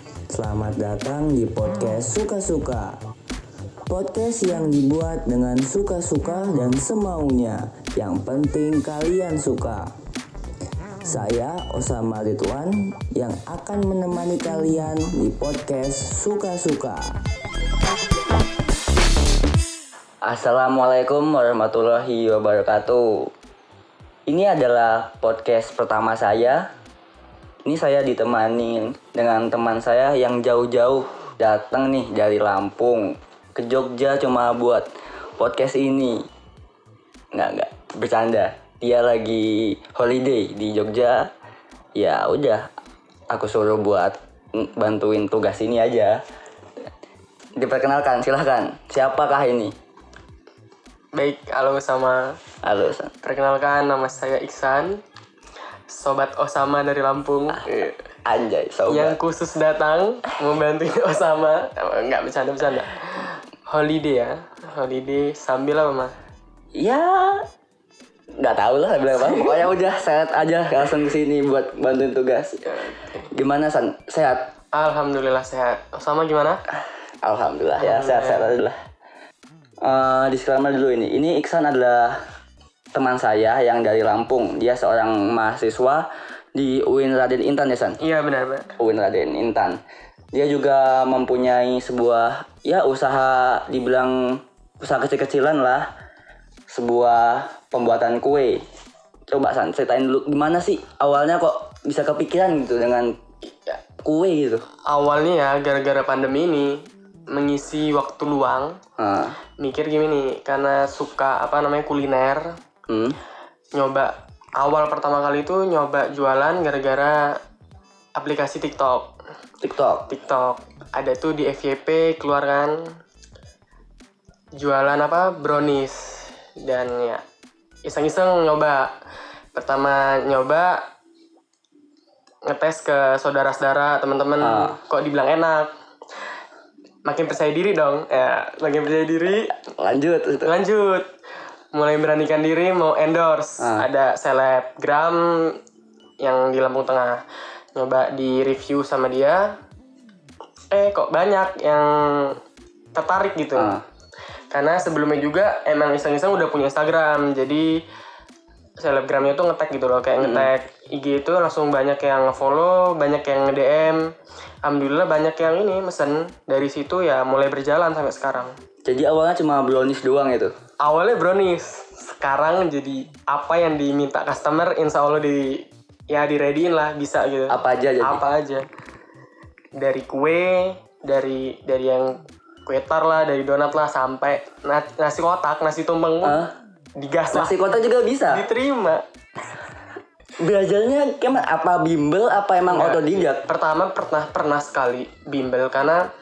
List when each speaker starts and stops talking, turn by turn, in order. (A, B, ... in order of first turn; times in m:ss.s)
0:00.3-0:03.0 A
0:03.9-0:09.9 A
0:11.0-0:17.2 A
0:20.2-0:23.3 A
0:24.3-0:26.7 A
0:27.6-0:34.9 A
0:35.4-0:36.2 A
0:37.3-0:41.3 A
0:42.0-0:42.7 A
0:43.3-0:46.2 A
0:47.6-0:49.7 A
0:51.1-0:52.4 B
0:52.6-0:53.1 A
0:53.2-0:55.0 B
0:55.9-0:57.9 B
0:57.5-0:59.2 A
0:58.9-1:06.1 B
1:06.7-1:07.4 A
1:08.3-1:12.6 A
1:12.7-1:13.2 B
1:13.3-1:14.5 A
1:14.7-1:16.6 B
1:17.2-1:18.8 A
1:17.8-1:18.5 B
1:19.8-1:22.2 A
1:22.9-1:28.0 A
1:28.0-1:28.7 B
1:28.8-1:29.8 A
1:30.3-1:35.9 A
1:36.7-1:38.6 A
1:39.3-1:43.1 A
1:44.0-1:44.6 A
1:44.9-1:48.8 B
1:49.0-1:49.3 A
1:49.6-1:52.5 B
1:52.9-1:53.2 A
1:53.8-1:57.3 B
1:58.2-1:59.1 B
1:59.6-2:00.0 A
2:00.1-2:02.8 B
2:04.6-2:07.2 B
2:07.8-2:08.9 B
2:09.5-2:10.8 B
2:12.5-2:15.7 B
2:14.4-2:14.8 A
2:17.0-2:19.5 B
2:19.5-2:20.5 A
2:20.4-2:21.1 B
2:21.7-2:25.6 B
2:23.6-2:23.8 A
2:26.2-2:27.2 B
2:27.7-2:29.5 B
2:30.7-2:32.4 B
2:32.9-2:33.7 B
2:33.6-2:33.8 A
2:34.5-2:37.8 B
2:38.8-2:44.1 B
2:40.2-2:40.5 A
2:44.6-2:48.5 B
2:48.8-2:50.5 A
2:50.8-2:58.6 B
2:57.5-2:58.2 A
2:59.8-3:06.4 B
3:06.2-3:06.5 A
3:07.0-3:07.6 B
3:07.3-3:08.4 A
3:08.3-3:09.0 B
3:10.4-3:13.4 A
3:12.7-3:16.0 B